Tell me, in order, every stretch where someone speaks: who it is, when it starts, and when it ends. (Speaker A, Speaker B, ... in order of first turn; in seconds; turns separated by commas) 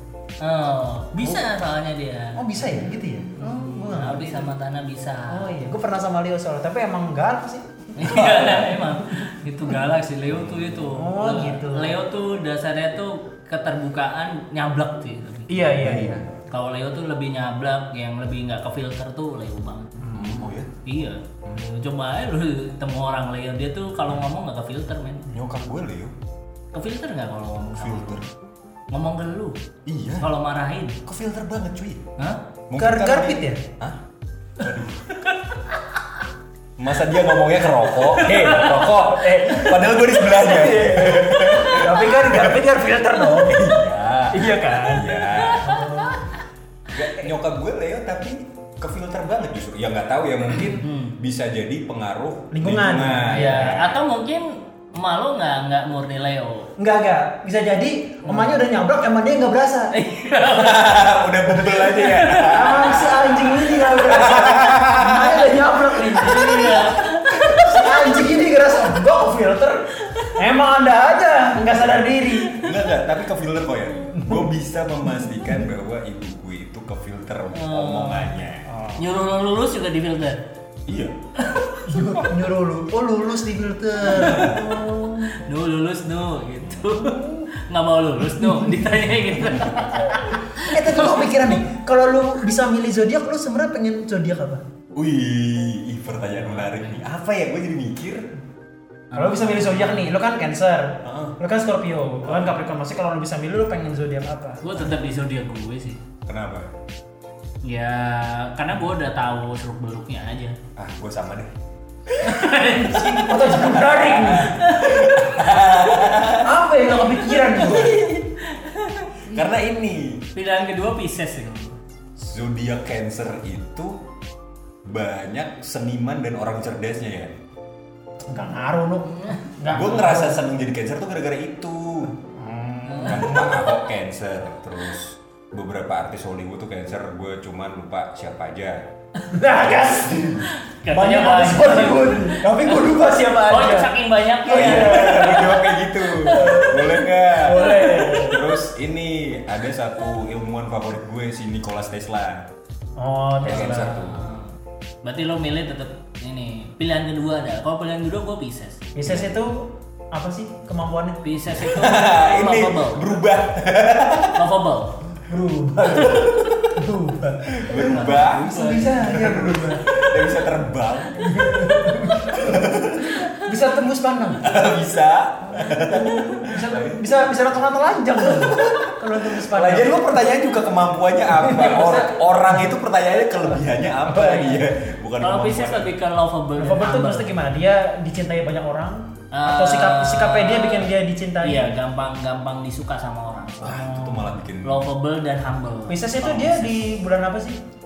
Speaker A: 0.4-2.4, Speaker B: 2.4-4.5, Speaker A: 3.4-5.5, Speaker B: 5.3-9.2, Speaker A: 8.0-20.1, Speaker C: 10.3-10.9, Speaker B: 10.9-12.0, Speaker B: 15.5-16.2, Speaker C: 15.8-16.2, Speaker B: 20.0-20.4, Speaker C: 20.1-20.7, Speaker A: 20.8-25.2, Speaker C: 25.3-26.1, Speaker A: 26.7-28.2, Speaker C: 27.8-28.3, Speaker A: 28.9-29.6, Speaker C: 29.9-30.3, Speaker A: 30.1-31.0, Speaker C: 31.0-32.0, Speaker C: 32.7-34.0, Speaker B: 32.7-33.6, Speaker C: 34.6-35.1, Speaker C: 36.8-42.6, Speaker A: 38.1-38.9, Speaker B: 38.5-43.6, Speaker C: 43.2-45.9, Speaker B: 44.3-45.1, Speaker A: 45.2-46.4, Speaker B: 45.6-46.2, Speaker C: 46.9-54.0, Speaker A: 50.6-51.1, Speaker B: 52.5-53.9, Speaker A: 53.3-56.7, Speaker B: 56.8-59.9, Speaker A: 58.3-58.5, Speaker A: 59.9-63.3, Speaker C: 60.4-63.3, Speaker B: 62.5-67.0, Speaker C: 63.8-65.4, Speaker A: 66.1-68.3, Speaker B: 67.5-72.6, Speaker A: 70.0-70.4, Speaker A: 72.4-72.7, Speaker C: 72.6-78.7, Speaker B: 74.1-74.5, Speaker A: 77.5-78.4, Speaker B: 78.7-79.0, Speaker A: 79.0-80.4, Speaker C: 80.9-81.1, Speaker A: 81.4-82.3, Speaker B: 81.8-85.3, Speaker A: 84.0-84.8, Speaker C: 84.2-84.6, Speaker A: 85.3-91.6, Speaker B: 86.9-87.5, Speaker B: 88.3-88.8, Speaker C: 89.3-90.1, Speaker B: 90.6-94.6, Speaker C: 94.9-98.3, Speaker A: 96.5-97.0, Speaker A: 99.1-100.1, Speaker B: 99.1-104.9, Speaker C: 101.0-101.3, Speaker A: 104.6-106.0, Speaker C: 106.2-106.7, Speaker A: 107.6-110.5, Speaker C: 110.8-111.5, Speaker C: 112.1-112.5, Speaker A: 112.2-113.6, Speaker B: 113.0-114.5, Speaker C: 113.5-116.6, Speaker A: 114.5-115.1, Speaker B: 116.4-118.0, Speaker A: 117.3-119.2, Speaker C: 119.3-120.3, Speaker A: 120.3-121.8, Speaker C: 122.2-124.0, Speaker C: 124.8-127.3, Speaker B: 128.3-130.4, Speaker A: 129.2-129.4, Speaker C: 129.6-132.2, Speaker B: 132.3-133.6, Speaker A: 132.8-133.2, Speaker C: 133.0-138.8, Speaker B: 139.3-143.9, Speaker C: 140.1-140.5, Speaker A: 140.6-142.9, Speaker A: 143.4-146.8, Speaker B: 144.4-145.6, Speaker C: 144.5-152.5, Speaker B: 146.3-148.4, Speaker A: 147.6-148.4, Speaker B: 153.0-153.9, Speaker C: 153.4-154.2, Speaker A: 153.4-158.8, Speaker B: 158.9-161.2, Speaker C: 159.0-159.4, Speaker A: 161.2-163.2, Speaker C: 161.5-164.4, Speaker A: 164.3-165.0, Speaker B: 165.3-169.8, Speaker C: 165.8-166.8, Speaker C: 167.5-173.3, Speaker A: 167.7-169.0, Speaker B: 171.2-172.7, Speaker B: 173.2-174.5, Speaker C: 174.4-177.1, Speaker B: 175.5-180.1, Speaker C: 178.2-185.9, Speaker B: 181.3-182.3, Speaker A: 184.1-184.6, Speaker B: 184.1-184.6, Speaker A: 185.2-187.3, Speaker B: 186.6-191.8, Speaker A: 189.3-196.8, Speaker C: 193.6-194.8, Speaker B: 195.9-197.6